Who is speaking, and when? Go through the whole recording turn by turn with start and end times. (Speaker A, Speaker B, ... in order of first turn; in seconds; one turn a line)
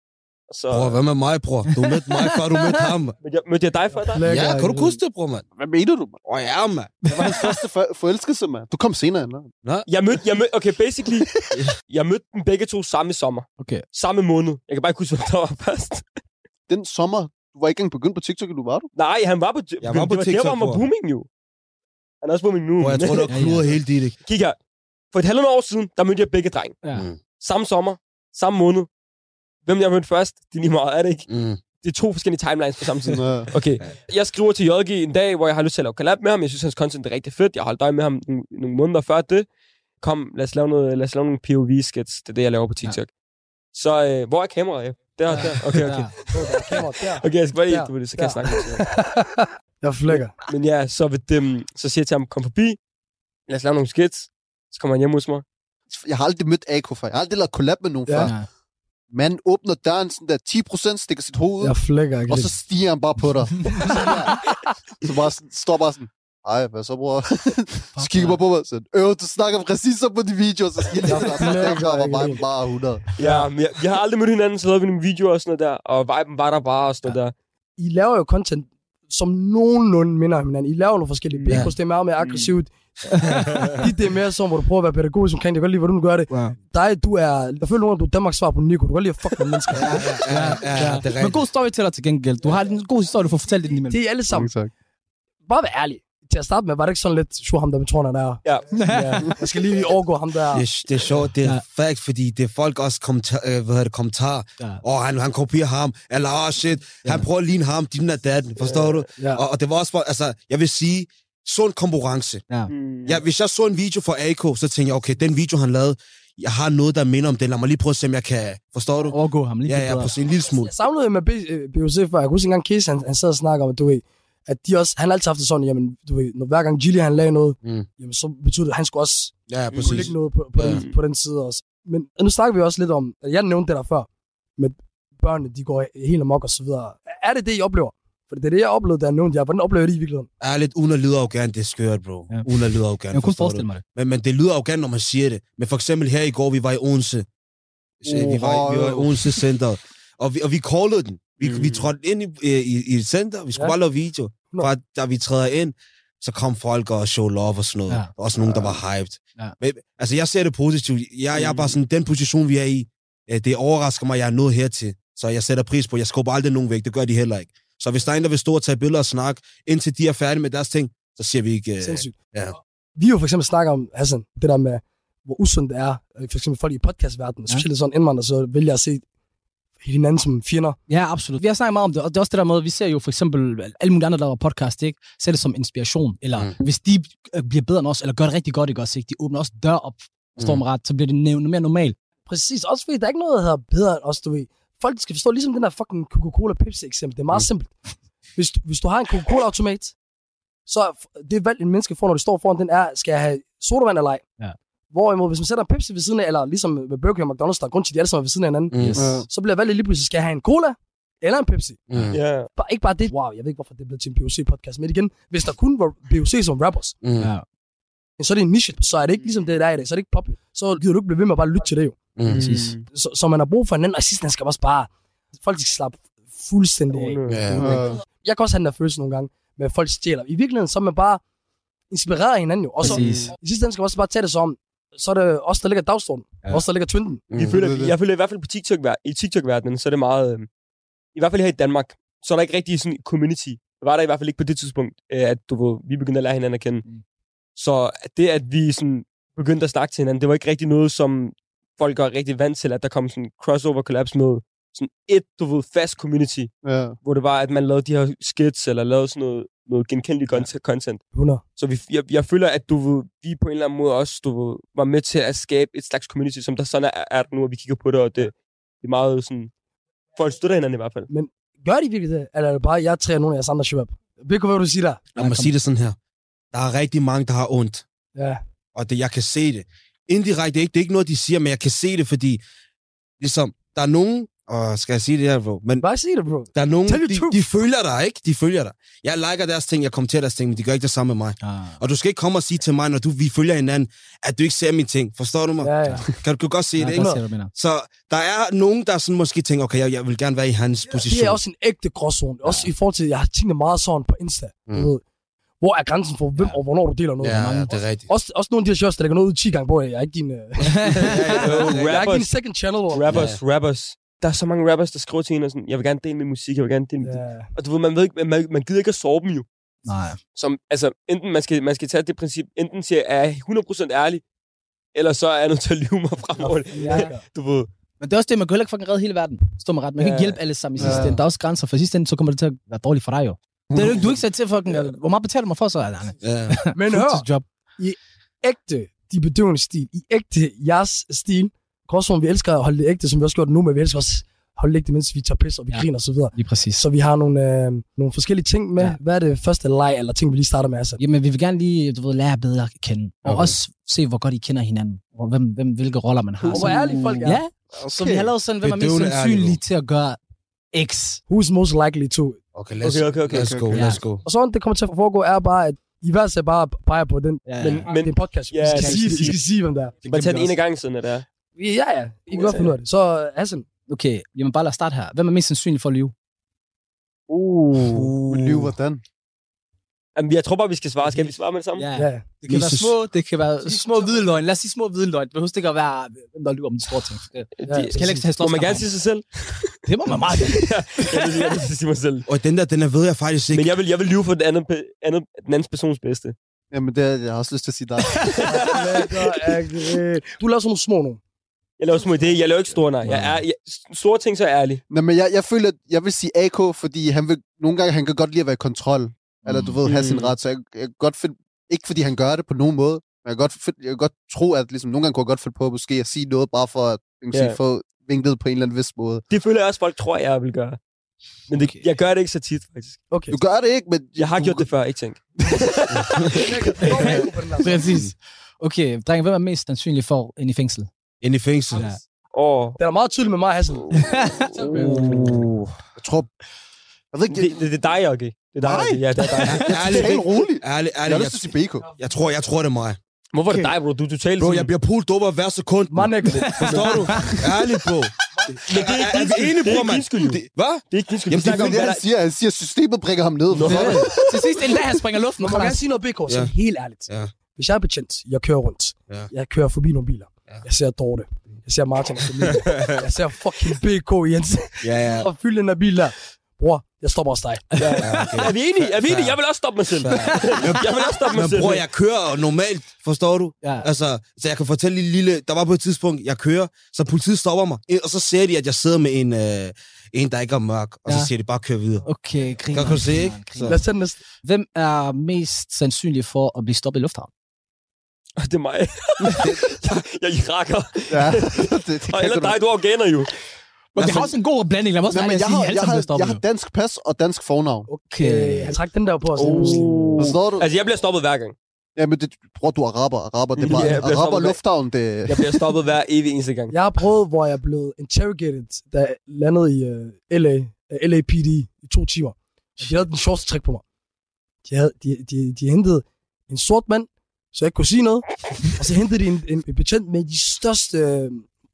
Speaker A: 0.5-1.0
Speaker B: 0.7-3.1
Speaker C: 1.7-2.8
Speaker A: 3.2-4.2
Speaker D: 4.1-5.0
Speaker B: 4.2-5.4
Speaker E: 5.5-6.2
Speaker B: 6.2-7.1
Speaker E: 7.1-9.5
Speaker A: 9.9-16.1
Speaker E: 16.7-18.9
Speaker A: 18.9-21.3
Speaker B: 19.8-20.9
Speaker A: 22.2-23.3
Speaker B: 22.8-24.1
Speaker C: 23.3-23.6
Speaker A: 24.2-24.6
Speaker A: 25.1-26.8
Speaker B: 26.9-27.2
Speaker A: 27.4-28.9
Speaker A: 29.6-31.3
Speaker B: 31.3-31.6
Speaker A: 31.8-39.5
Speaker E: 33.0-33.5
Speaker A: 40.0-43.1
Speaker A: 43.7-48.8
Speaker C: 45.3-46.1
Speaker D: 46.3-50.3
Speaker A: 50.5-52.8
Speaker A: 53.5-55.4
Speaker E: 55.9-58.3
Speaker C: 58.2-58.5
Speaker E: 59.1-61.8
Speaker D: 61.6-62.5
Speaker E: 62.3-64.5
Speaker D: 63.8-64.5
Speaker E: 65.0-73.0
Speaker C: 68.0-68.4
Speaker D: 71.0-72.4
Speaker D: 73.2-73.4
Speaker A: 73.2-77.3
Speaker D: 77.8-82.7
Speaker A: 81.3-81.7
Speaker B: 81.5-81.7
Speaker A: 82.2-82.5
Speaker C: 83.1-83.5
Speaker B: 83.3-83.8
Speaker D: 83.7-90.1
Speaker C: 86.3-86.5
Speaker B: 89.7-91.4
Speaker C: 89.8-94.0
Speaker D: 93.9-94.5
Speaker E: 94.3-94.7
Speaker D: 95.4-100.7
Speaker C: 98.7-99.3
Speaker B: 100.5-112.4
Speaker A: 108.6-109.0
Speaker A: 112.7-113.2
Speaker B: 113.0-120.7
Speaker C: 119.1-120.1
Speaker D: 120.6-140.3
Speaker B: 129.5-130.8
Speaker A: 129.7-130.1
Speaker A: 130.7-130.9
Speaker B: 140.4-147.2
Speaker C: 143.1-143.8
Speaker B: 148.0-172.6
Speaker E: 148.1-149.2
Speaker A: 151.4-151.9
Speaker A: 161.3-161.8
Speaker D: 171.8-172.2
Speaker D: 173.0-179.0
Speaker D: 179.8-180.8
Speaker C: 180.9-191.9
Speaker B: 190.4-190.6
Speaker D: 192.3-197.7
Speaker D: 198.3-199.9
Speaker D: 200.7-204.2
Speaker D: 204.9-211.8
Speaker B: 208.7-209.1
Speaker C: 208.8-209.2
Speaker E: 209.0-209.2
Speaker B: 211.9-212.2
Speaker A: 212.1-212.5
Speaker D: 212.5-216.9
Speaker B: 217.0-217.3
Speaker C: 217.2-217.4
Speaker D: 218.2-222.0
Speaker B: 222.2-222.5
Speaker A: 222.2-222.8
Speaker C: 222.4-222.7
Speaker D: 222.9-231.2
Speaker A: 226.9-227.4
Speaker B: 227.3-227.8
Speaker E: 227.6-228.0
Speaker D: 231.9-237.3
Speaker C: 232.8-233.3
Speaker A: 232.8-233.3
Speaker B: 237.3-237.7
Speaker A: 237.3-240.5
Speaker E: 237.4-237.9
Speaker A: 241.1-246.8
Speaker A: 247.6-256.5
Speaker E: 256.6-257.0
Speaker A: 257.0-261.1
Speaker D: 261.1-261.4
Speaker A: 261.6-269.5
Speaker A: 270.1-271.1
Speaker D: 271.1-275.0
Speaker C: 275.1-275.5
Speaker B: 275.1-276.0
Speaker B: 276.5-277.8
Speaker D: 278.1-278.4
Speaker B: 278.7-282.4
Speaker B: 283.2-285.9
Speaker D: 285.8-287.4
Speaker B: 286.5-301.4
Speaker C: 291.4-291.8
Speaker D: 295.6-296.1
Speaker C: 296.8-297.5
Speaker D: 296.9-297.2
Speaker D: 301.0-305.0
Speaker D: 305.6-307.5
Speaker B: 307.2-308.1
Speaker C: 307.3-307.7
Speaker D: 308.1-313.2
Speaker C: 310.7-311.3
Speaker B: 310.8-311.8
Speaker A: 311.3-312.3
Speaker A: 312.9-319.5
Speaker B: 313.1-313.4
Speaker D: 317.0-317.5
Speaker C: 319.9-320.2
Speaker A: 320.4-324.2
Speaker A: 324.9-327.7
Speaker D: 326.4-327.2
Speaker C: 326.8-327.1
Speaker C: 328.0-337.4
Speaker A: 330.0-330.4
Speaker E: 330.8-331.2
Speaker E: 333.7-334.1
Speaker B: 336.2-336.6
Speaker D: 336.7-337.2
Speaker D: 337.8-351.0
Speaker C: 345.7-346.8
Speaker C: 351.0-360.2
Speaker B: 353.2-353.6
Speaker D: 356.5-357.4
Speaker E: 357.7-358.3
Speaker B: 358.6-359.6
Speaker C: 360.7-361.2
Speaker D: 361.3-362.4
Speaker B: 362.5-364.2
Speaker A: 362.8-363.6
Speaker E: 363.3-363.9
Speaker C: 363.7-364.0
Speaker D: 364.2-369.9
Speaker C: 367.4-367.9
Speaker A: 367.6-369.4
Speaker C: 368.7-369.3
Speaker C: 370.0-370.5
Speaker A: 370.1-371.2
Speaker D: 371.6-373.6
Speaker A: 372.3-372.7
Speaker C: 373.9-376.1
Speaker C: 377.3-377.7
Speaker B: 377.8-378.7
Speaker E: 377.8-379.0
Speaker A: 380.1-381.9
Speaker C: 381.1-388.9
Speaker D: 381.9-382.2
Speaker B: 382.5-382.9
Speaker A: 387.6-389.8
Speaker D: 387.7-388.1
Speaker C: 389.9-391.3
Speaker A: 390.4-392.2
Speaker B: 392.3-393.7
Speaker A: 393.5-396.4
Speaker E: 396.7-398.6
Speaker A: 398.2-399.3
Speaker D: 398.5-401.2
Speaker A: 401.8-404.8
Speaker B: 403.1-403.3
Speaker E: 404.9-419.2
Speaker C: 409.4-409.8
Speaker A: 409.8-410.3
Speaker A: 417.3-417.6
Speaker A: 419.3-420.8
Speaker A: 421.5-423.0
Speaker D: 423.1-423.4
Speaker E: 423.3-424.7
Speaker A: 424.2-427.3
Speaker B: 425.9-426.4
Speaker D: 426.3-428.0
Speaker C: 427.1-430.9
Speaker B: 431.2-431.9
Speaker C: 431.7-432.0
Speaker A: 432.3-432.8
Speaker D: 432.8-434.8
Speaker C: 433.9-435.4
Speaker B: 434.8-435.7
Speaker E: 436.0-436.3
Speaker E: 437.1-437.6
Speaker A: 437.3-440.2
Speaker E: 438.6-441.9
Speaker C: 439.4-439.7
Speaker B: 439.5-443.0
Speaker A: 443.3-444.7
Speaker B: 444.4-451.8
Speaker D: 445.9-447.0
Speaker A: 446.5-447.1
Speaker A: 448.6-452.0
Speaker E: 451.4-454.1
Speaker A: 453.5-454.2
Speaker C: 453.6-455.8
Speaker D: 453.8-454.0
Speaker D: 455.4-467.8
Speaker B: 456.3-456.5
Speaker B: 462.4-463.1
Speaker B: 464.8-465.3
Speaker C: 467.7-468.4
Speaker A: 467.8-471.8
Speaker B: 468.0-469.4
Speaker B: 470.0-482.1
Speaker C: 470.1-470.6
Speaker C: 482.0-483.9
Speaker B: 482.7-483.8
Speaker D: 483.6-484.2
Speaker C: 484.4-487.3
Speaker A: 488.4-493.3
Speaker E: 491.1-492.6
Speaker C: 493.9-496.4
Speaker B: 493.9-494.3
Speaker E: 495.1-497.9
Speaker D: 497.9-499.9
Speaker C: 498.1-498.7
Speaker A: 499.4-501.6
Speaker C: 499.5-500.1
Speaker E: 500.2-500.7
Speaker E: 501.9-505.7
Speaker A: 503.6-504.6
Speaker A: 505.3-506.7
Speaker D: 506.7-513.8
Speaker D: 514.6-521.5